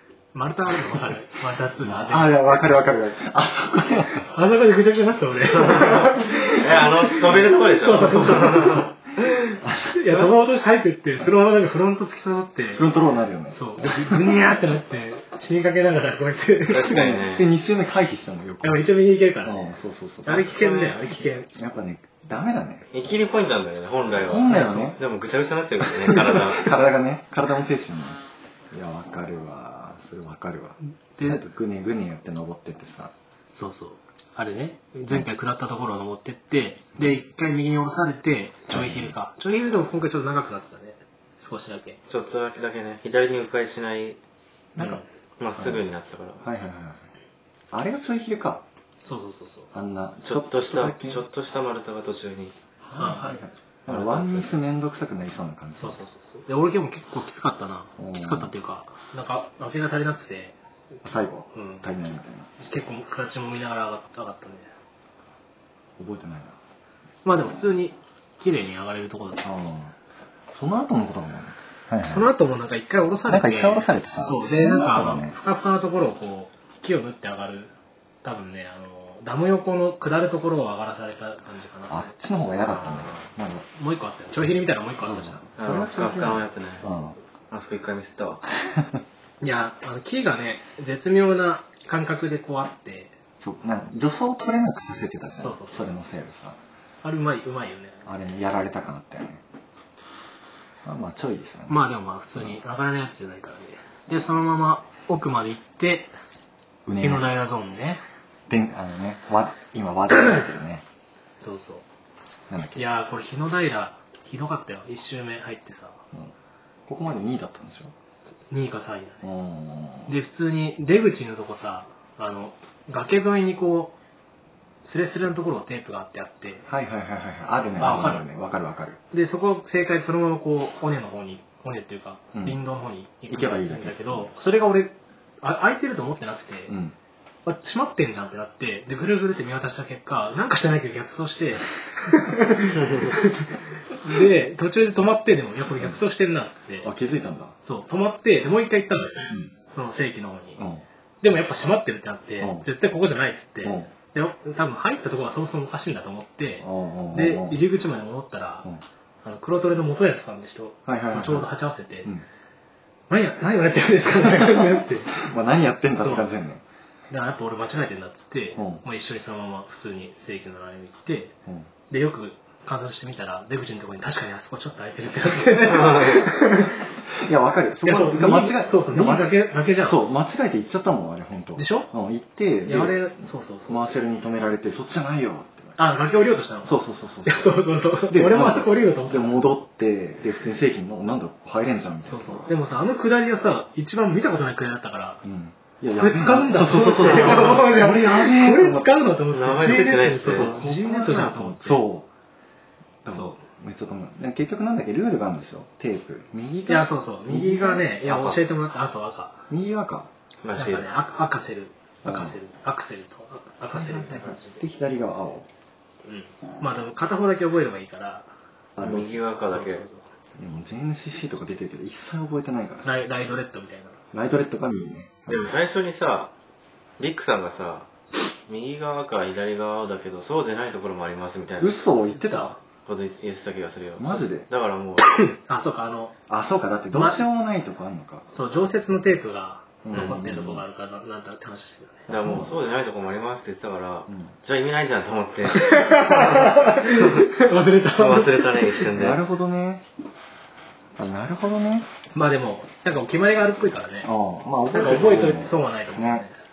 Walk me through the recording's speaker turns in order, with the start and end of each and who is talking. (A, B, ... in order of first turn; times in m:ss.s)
0:00.3-0:02.6 A
0:01.8-0:04.3 B
0:04.2-0:12.9 A
0:05.6-0:08.9 C
0:09.6-0:10.2 B
0:12.8-0:14.4 B
0:13.5-0:17.1 A
0:16.7-0:17.5 C
0:16.7-0:18.9 B
0:18.6-0:21.5 A
0:19.4-0:20.6 B
0:20.4-0:21.1 C
0:21.5-0:22.9 B
0:22.9-0:26.8 C
0:24.2-0:25.0 B
0:24.5-0:25.0 A
0:26.0-0:33.1 B
0:31.2-0:31.4 A
0:33.5-0:42.0 A
0:38.7-0:39.2 B
0:42.1-0:44.2 C
0:44.8-0:45.0 B
0:45.4-0:46.5 C
0:45.6-0:45.9 B
0:46.4-0:47.1 B
0:47.7-0:48.6 B
0:49.0-0:49.7 A
0:49.7-0:51.2 B
0:50.3-0:52.6 C
0:52.8-0:56.0 B
0:53.0-0:53.4 A
0:53.9-0:54.5 C
0:55.8-1:00.6 A
0:58.0-0:58.5 B
1:01.0-1:02.5 B
1:01.5-1:01.9 A
1:02.6-1:04.7 A
1:06.0-1:06.6 B
1:07.2-1:09.4 A
1:09.4-1:10.0 B
1:10.5-1:12.3 B
1:12.0-1:22.9 A
1:13.3-1:15.4 B
1:21.9-1:23.7 B
1:22.8-1:23.2 C
1:23.7-1:25.5 A
1:25.0-1:27.2 B
1:25.6-1:26.9 C
1:26.8-1:27.2 A
1:27.5-1:28.4 C
1:28.7-1:29.0 B
1:29.4-1:33.1 A
1:33.4-1:36.6 B
1:35.4-1:35.9 A
1:37.0-1:38.0 A
1:38.0-1:39.4 B
1:40.8-1:42.6 B
1:41.7-1:46.1 A
1:46.8-1:47.3 B
1:47.0-1:48.0 A
1:48.5-1:50.8 B
1:51.4-1:51.9 A
1:52.5-1:52.9 B
1:52.8-1:56.0 A
1:56.9-1:57.9 B
1:58.5-1:59.2 A
1:59.2-2:00.1 B
2:00.1-2:04.0 A
2:04.8-2:06.7 A
2:06.7-2:09.0 B
2:07.8-2:08.2 A
2:09.1-2:16.8 A
2:12.3-2:12.6 B
2:13.3-2:14.3 B
2:16.7-2:17.0 B
2:17.4-2:26.9 A
2:22.8-2:23.1 C
2:26.8-2:27.6 B
2:27.6-2:30.6 A
2:30.6-2:30.9 B
2:31.2-2:38.7 A
2:32.4-2:32.7 B
2:33.6-2:33.9 B
2:36.6-2:37.6 B
2:39.2-2:42.1 A
2:40.9-2:41.5 B
2:43.1-2:45.2 A
2:44.2-2:46.6 B
2:46.0-2:46.3 A
2:47.1-2:51.4 A
2:48.6-2:48.8 B
2:51.9-2:56.8 A
2:55.8-2:56.2 C
2:57.1-3:03.1 B
2:57.8-3:00.0 A
3:01.6-3:01.9 A
3:02.7-3:03.9 A
3:03.7-3:05.8 B
3:05.8-3:09.4 A
3:06.6-3:12.5 B
3:12.1-3:15.2 A
3:15.2-3:19.0 B
3:15.9-3:21.8 A
3:19.3-3:20.7 C
3:20.2-3:22.1 B
3:23.0-3:28.0 B
3:23.1-3:23.4 A
3:26.7-3:29.4 A
3:28.1-3:28.4 C
3:29.5-3:30.1 B
3:30.4-3:30.9 C
3:30.6-3:34.6 A
3:32.0-3:32.4 B
3:33.7-3:35.5 B
3:36.0-3:38.3 A
3:38.8-3:39.2 B
3:38.8-3:39.9 C
3:39.5-3:40.1 A
3:40.4-3:43.0 B
3:42.8-3:44.0 A
3:44.1-3:45.5 B
3:45.3-3:46.3 C
3:47.0-3:47.9 C
3:48.5-3:51.8 C
3:51.6-3:52.6 B
3:52.1-3:52.6 A
3:52.9-3:55.1 C
3:54.0-3:54.5 B
3:55.1-3:56.2 A
3:56.3-3:58.3 B
3:56.9-3:57.2 A
3:58.3-4:02.1 A
3:59.8-4:00.6 B
3:59.9-4:00.3 C
4:02.1-4:02.6 B
4:02.1-4:07.3 C
4:04.1-4:04.3 B
4:05.5-4:08.9 A
4:08.0-4:09.2 C
4:08.9-4:09.8 B
4:11.0-4:11.9 B
4:12.1-4:14.1 A
4:14.0-4:16.2 B
4:14.7-4:16.4 A